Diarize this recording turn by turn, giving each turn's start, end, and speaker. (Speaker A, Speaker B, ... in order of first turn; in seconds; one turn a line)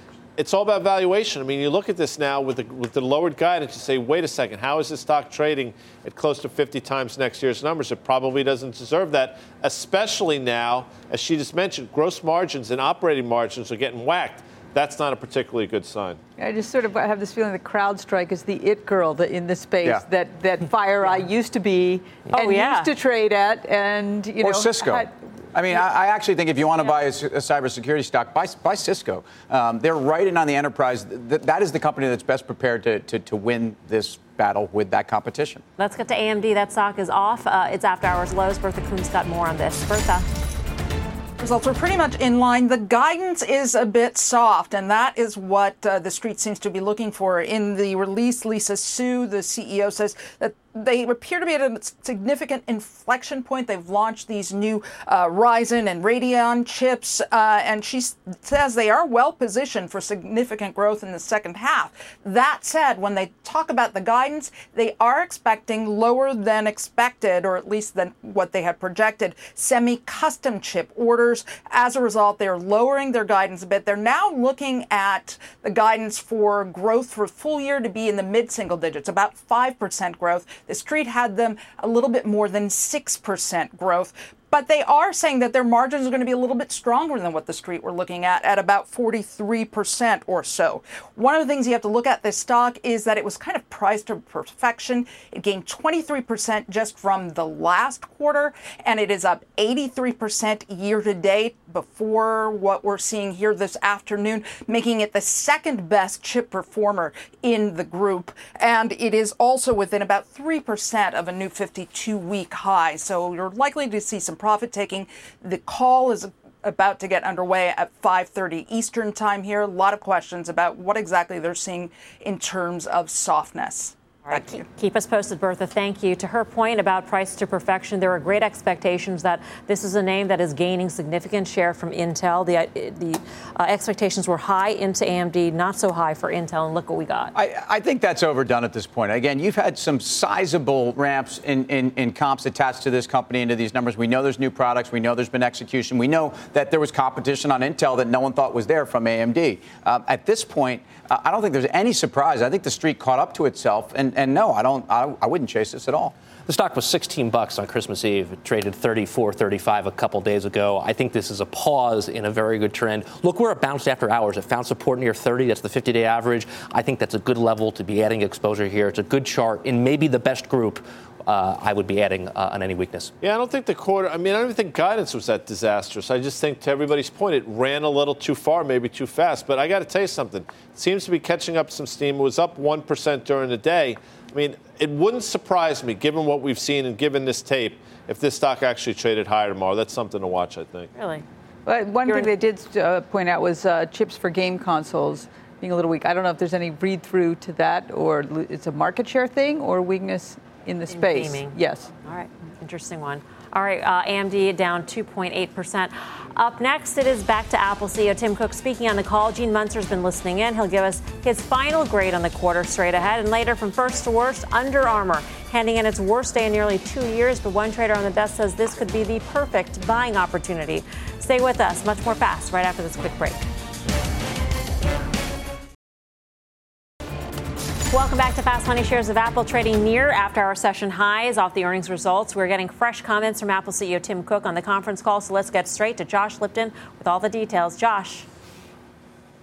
Speaker A: 0.4-16.2
Speaker B: 16.4-25.1
Speaker C: 22.3-22.9
Speaker D: 24.4-35.6
Speaker C: 35.8-40.2
Speaker E: 41.4-124.6
Speaker C: 124.3-137.3
Speaker D: 137.3-156.1
Speaker F: 156.5-173.1
Speaker A: 173.2-190.9
Speaker C: 190.9-191.2
Speaker B: 191.7-201.9
Speaker C: 192.0-192.3
Speaker C: 200.9-223.4
Speaker C: 227.9-238.3